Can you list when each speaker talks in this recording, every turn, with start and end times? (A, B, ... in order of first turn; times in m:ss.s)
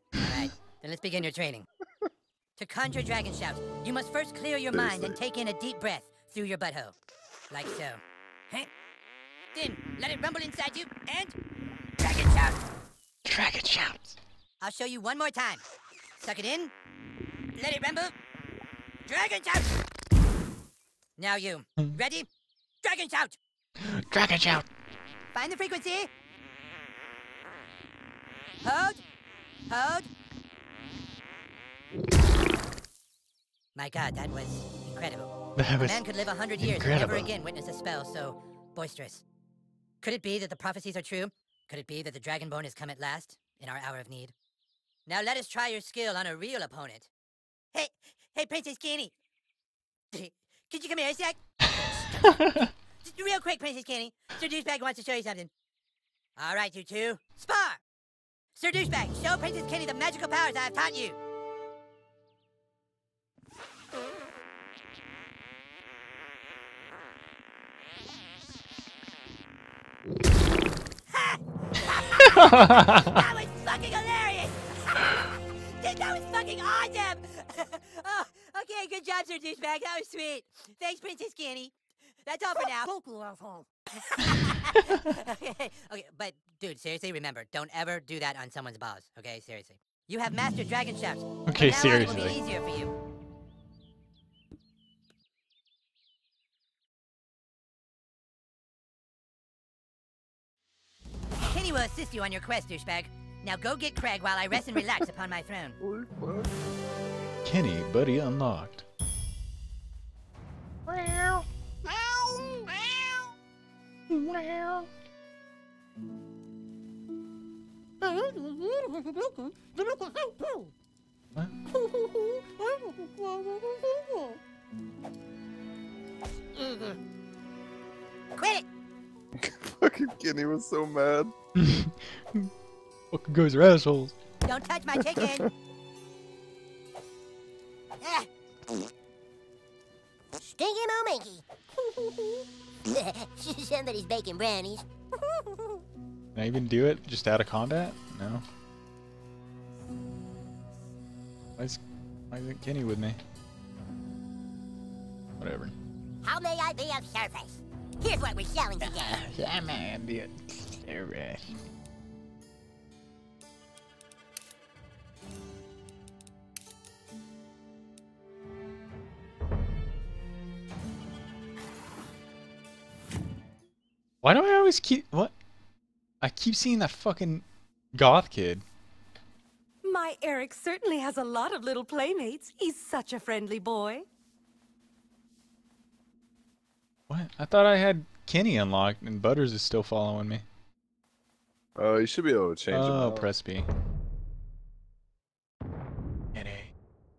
0:00.2-0:01.7 A
0:02.6-0:06.9 A
0:04.7-0:05.2 B
0:07.5-0:08.7 A
0:09.5-0:11.3 A
0:12.0-0:12.6 A
0:13.2-0:14.2 C
0:14.6-0:15.6 A
0:16.2-0:16.7 A
0:17.6-0:18.1 A
0:19.0-0:19.7 A
0:21.2-0:22.3 A
0:22.8-0:23.4 A
0:23.8-0:24.7 C
0:25.3-0:26.1 A
0:28.6-0:29.0 A
0:29.7-0:30.1 A
0:33.7-0:39.2 A
0:35.6-0:36.0 C
0:36.6-0:37.3 C
0:40.0-0:44.3 A
0:45.1-0:47.1 A
0:47.7-0:49.1 A
0:50.1-0:51.4 A
0:52.2-0:52.5 C
0:53.0-0:55.5 A
0:56.4-0:57.8 A
0:58.5-1:01.2 A
1:11.1-1:23.0 A
1:23.0-1:23.6 D
1:23.9-1:32.9 A
1:31.5-1:32.4 C
1:41.4-1:45.8 A
1:45.8-1:46.5 B
1:47.4-1:48.8 C
1:50.9-1:51.4 C
1:54.1-1:54.9 C
2:08.4-2:08.6 A
2:09.4-2:11.3 B
2:11.6-2:12.5 C
2:13.1-2:14.1 C
2:14.4-2:15.5 A
2:15.2-2:15.4 B
2:18.0-2:18.3 A
2:20.4-2:21.4 D
2:22.2-2:24.8 D
2:26.3-2:28.4 C
2:31.6-2:33.2 C
2:35.4-2:35.7 C
2:36.2-2:39.2 D
2:38.8-2:41.5 C
2:54.2-2:55.3 C
2:56.2-2:58.6 C
2:59.8-3:04.0 E
3:07.1-3:10.4 C
3:11.8-3:13.3 B
3:12.7-3:13.7 C
3:16.3-3:16.7 C